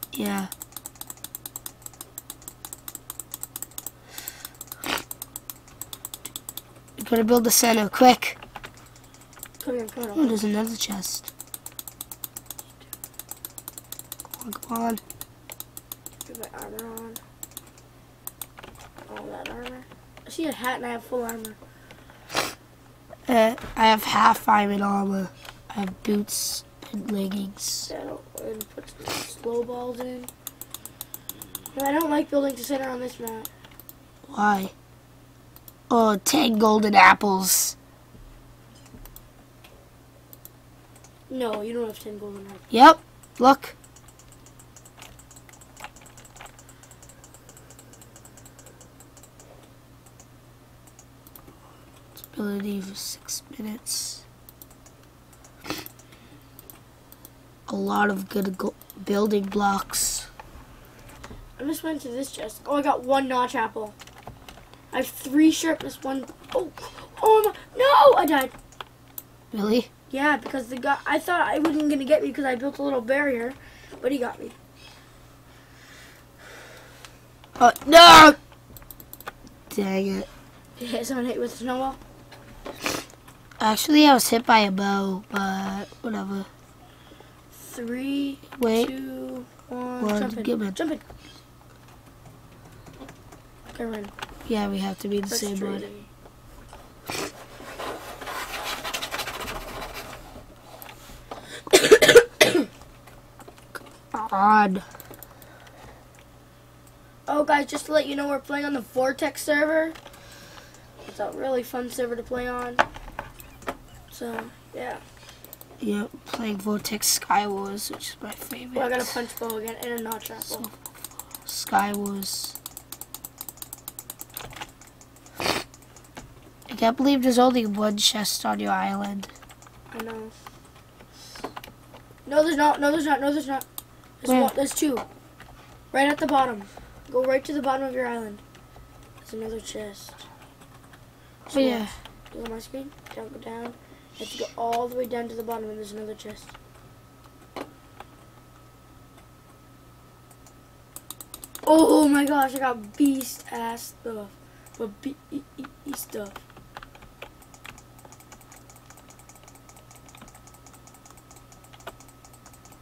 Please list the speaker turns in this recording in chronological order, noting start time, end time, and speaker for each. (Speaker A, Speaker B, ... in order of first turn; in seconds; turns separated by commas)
Speaker A: 0.1-0.5, Speaker A: 7.0-8.4, Speaker B: 9.6-10.4, Speaker A: 10.1-11.3, Speaker A: 14.4-15.0, Speaker B: 16.2-17.2, Speaker B: 19.1-21.6, Speaker A: 23.3-27.9, Speaker B: 27.9-30.3, Speaker B: 31.7-33.5, Speaker A: 34.3-34.7, Speaker A: 35.9-37.8, Speaker B: 41.3-42.6, Speaker A: 42.7-43.7, Speaker A: 52.2-54.2, Speaker A: 57.7-60.3, Speaker B: 61.6-63.9, Speaker B: 64.9-68.5, Speaker A: 69.5-69.9, Speaker B: 70.1-74.5, Speaker A: 77.6-78.4, Speaker A: 79.7-80.3, Speaker B: 80.8-82.0, Speaker A: 83.6-86.5, Speaker B: 87.5-91.0, Speaker A: 88.5-88.9, Speaker A: 90.0-90.8, Speaker B: 93.7-94.1, Speaker A: 94.5-95.9, Speaker B: 95.3-96.1, Speaker B: 101.7-102.6, Speaker A: 104.1-104.8, Speaker B: 107.3-110.0, Speaker B: 111.0-112.8, Speaker B: 114.1-115.0, Speaker A: 115.8-119.2, Speaker B: 118.7-120.7, Speaker A: 120.5-122.5, Speaker A: 126.7-129.3, Speaker B: 129.9-130.3, Speaker B: 132.2-133.6, Speaker B: 134.2-135.1, Speaker A: 134.2-134.5, Speaker B: 135.9-138.4, Speaker B: 139.2-140.2, Speaker B: 141.5-146.5, Speaker A: 141.5-141.9, Speaker B: 151.6-156.4